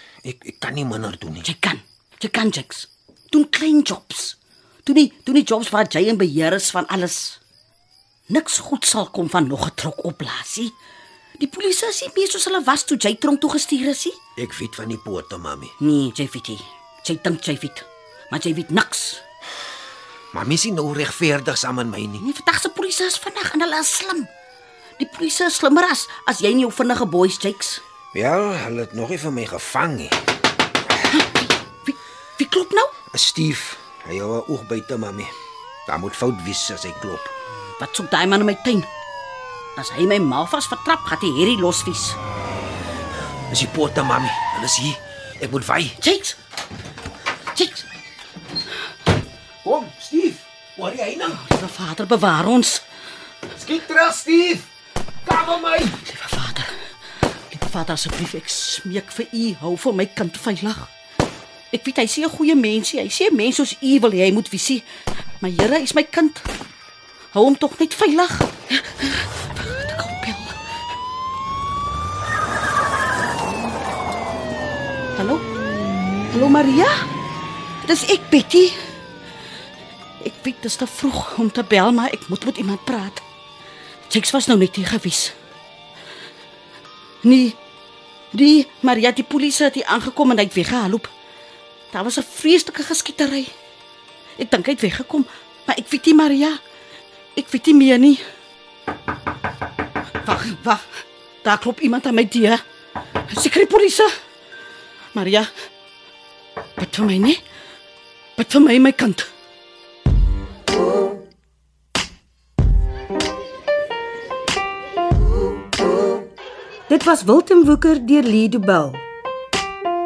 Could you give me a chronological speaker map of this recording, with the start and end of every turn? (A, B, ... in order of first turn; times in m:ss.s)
0:00.2-0:01.5 A
0:01.4-0:07.4 B
0:08.3-0:10.7 B
0:11.4-0:14.2 B
0:14.4-0:15.7 A
0:15.8-0:19.2 B
0:20.3-0:22.2 A
0:22.2-0:24.3 B
0:25.0-0:27.8 B
0:28.1-0:30.2 A
0:31.0-0:32.9 B
0:33.1-0:35.3 A
0:35.9-0:37.3 A
0:37.8-0:38.9 B
0:39.8-0:42.2 B
0:43.5-0:46.0 A
0:46.0-0:46.4 B
0:47.5-0:47.9 B
0:49.6-0:51.4 A
0:51.3-0:52.8 B
0:53.5-0:54.7 A
0:55.2-0:56.0 A
0:55.9-0:56.8 B
0:57.5-1:00.9 B
1:01.7-1:04.9 B
1:05.4-1:06.5 B
1:07.3-1:10.6 B
1:15.2-1:15.4 B
1:16.3-1:17.0 B
1:17.8-1:18.8 B
1:20.2-1:23.2 B
1:24.1-1:25.3 B
1:27.2-1:27.6 B
1:28.3-1:31.1 B
1:31.9-1:33.5 B
1:34.4-1:36.6 B
1:37.4-1:38.2 B
1:40.2-1:42.6 B
1:43.2-1:44.1 B
1:45.1-1:45.5 B
1:46.8-1:47.4 B
1:48.4-1:49.3 B
1:56.9-1:59.0 C